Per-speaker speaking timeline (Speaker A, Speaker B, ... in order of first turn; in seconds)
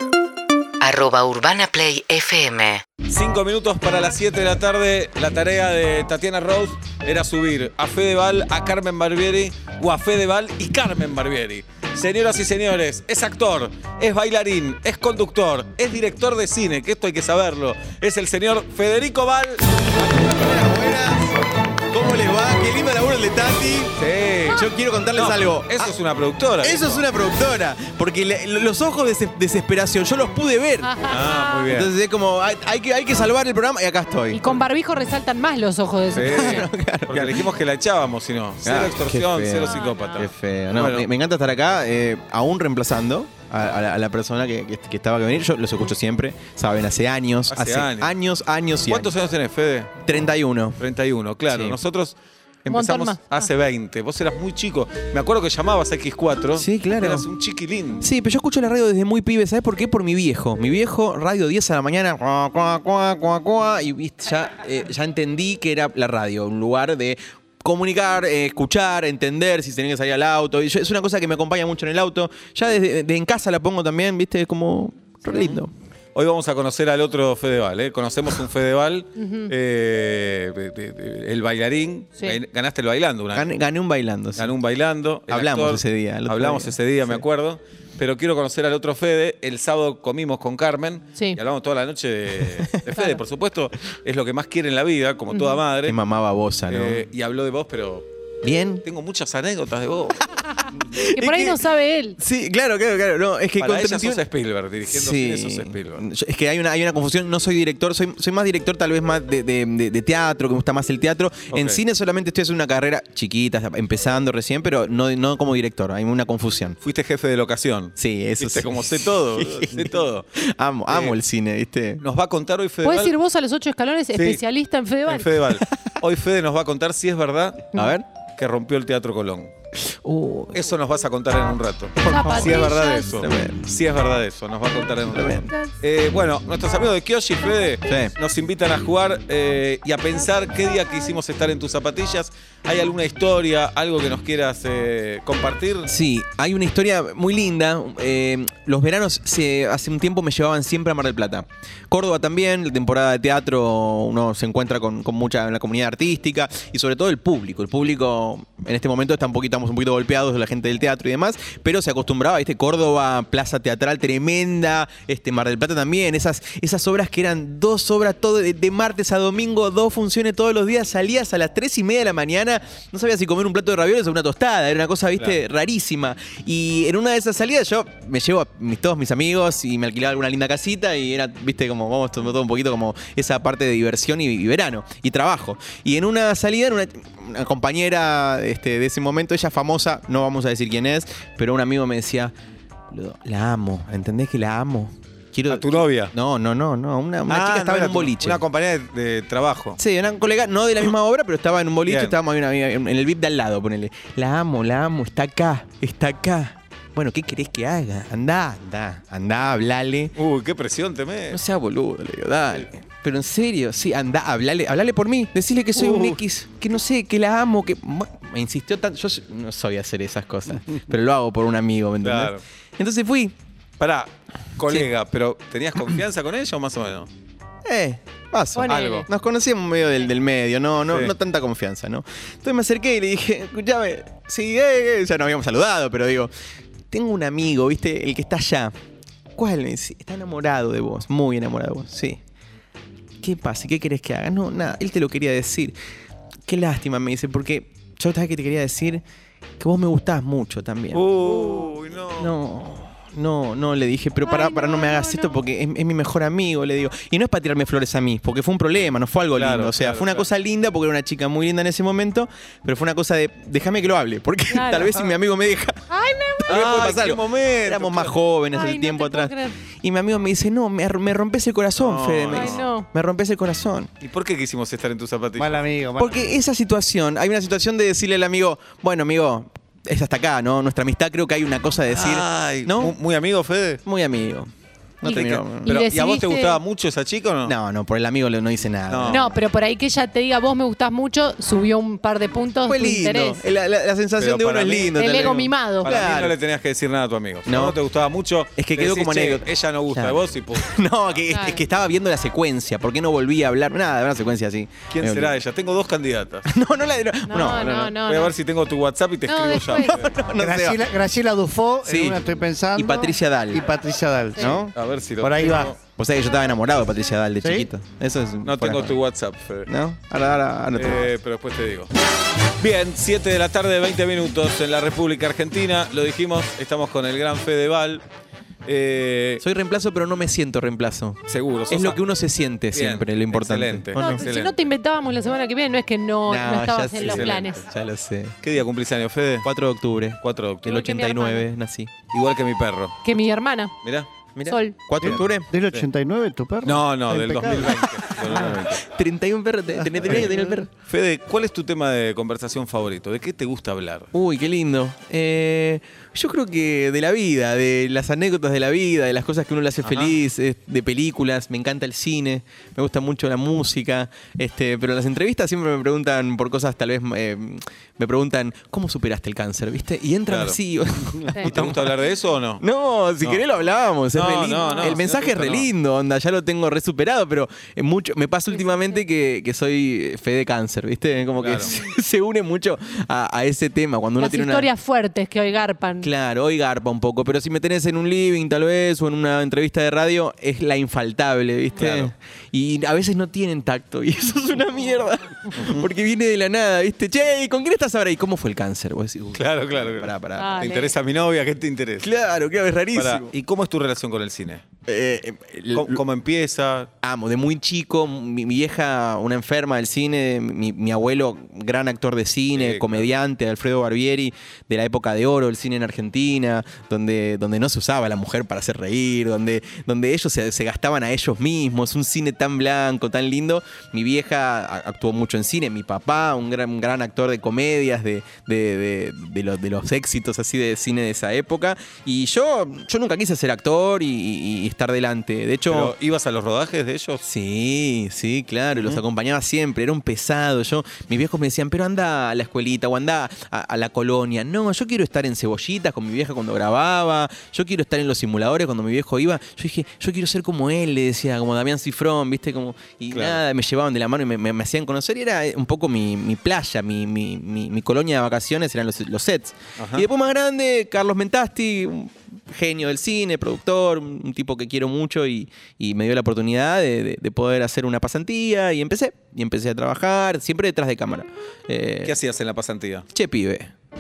Speaker A: 0.8-2.8
Speaker B: 3.1-19.8, 24.0-24.6, 25.1-27.1, 31.1-31.9, 36.1-41.1, 47.5-48.1, 48.9-50.0, 50.8-58.1, 76.1-83.6, 84.3-96.0, 96.7-98.0, 98.8-100.2, 103.6-106.0, 111.5-111.8, 116.8-120.3, 120.9-121.2, 122.0-123.1, 124.1-124.4, 125.1-127.7, 128.4-129.5, 130.5-145.9, 195.5-196.1, 197.3-199.8, 201.9-202.2, 210.2-211.4, 215.7-216.2, 222.0-222.4, 223.8-227.1, 228.7-229.1, 250.9-252.3, 259.3-260.3, 266.5-268.2, 271.8-272.6, 274.0-275.6, 281.9-283.8, 285.0-287.5, 288.9-289.2, 294.2-295.1, 295.8-300.8, 304.9-306.5, 307.4-310.1, 314.7-315.8, 318.4-319.7, 320.7-321.9, 322.6-328.0, 328.6-329.4, 331.3-332.0, 332.7-334.6, 337.0-337.6, 338.4-339.5, 340.2-340.8, 342.1-343.0, 343.8-344.1, 345.0-345.9, 346.6-348.8, 350.0-350.3, 350.9-354.1, 359.8-360.2, 370.3-372.6, 374.1-375.7, 381.4-381.7, 391.8-392.1, 395.5-395.8, 399.3-402.1, 402.9-404.6, 405.7-406.9, 412.5-413.1, 435.7-437.2, 438.8-439.0, 453.1-453.4, 459.8-460.1, 472.0-473.1
Speaker C: 19.9-21.4, 21.9-25.9, 26.6-31.0, 31.7-34.6, 36.2-37.5, 38.6-49.1, 50.0-50.8, 51.5-51.8, 56.5-57.3, 58.0-75.7, 83.3-84.5, 85.3-87.2, 95.8-97.0, 98.4-98.8, 100.7-101.7, 102.2-104.2, 104.9-116.8, 118.0-122.0, 125.6-125.9, 127.7-128.1, 129.8-130.7, 132.0-133.7, 135.1-135.5, 137.8-138.1, 145.9-192.3, 192.9-198.4, 199.8-210.1, 211.3-223.3, 227.6-236.3, 236.9-238.7, 239.3-242.2, 243.2-245.8, 246.4-249.0, 249.6-265.8, 266.4-273.9, 276.0-282.9, 283.8-285.7, 287.4-289.4, 292.7-296.4, 297.4-297.8, 298.6-305.4, 306.4-307.8, 309.7-310.9, 311.8-313.6, 314.4-314.7, 315.9-319.0, 319.7-321.1, 329.4-334.2, 336.2-338.4, 339.4-341.9, 344.3-345.5, 347.4-350.7, 354.1-371.9, 372.6-384.7, 386.0-400.7, 402.0-403.3, 404.9-406.0, 407.0-435.9, 437.2-472.1, 473.1-473.7
Speaker D: 30.8-31.7, 34.3-36.7, 39.6-40.2, 52.7-53.5, 79.2-79.5, 95.3-95.6, 100.9-102.2, 122.8-125.3, 132.1-133.2, 228.6-229.1, 254.2-255.3, 264.5-265.0, 265.9-266.6, 268.5-269.5, 272.3-272.9, 285.1-286.6, 289.1-293.4, 294.9-295.9, 301.3-301.6, 307.2-308.3, 309.3-310.0, 334.0-337.6, 340.6-341.5, 343.0-343.7, 344.4-344.7, 374.6-375.0, 384.2-386.1, 400.4-400.9
Speaker E: 275.4-276.2, 310.3-314.7, 315.2-315.7, 317.4-317.7, 345.0-348.5, 349.9-350.3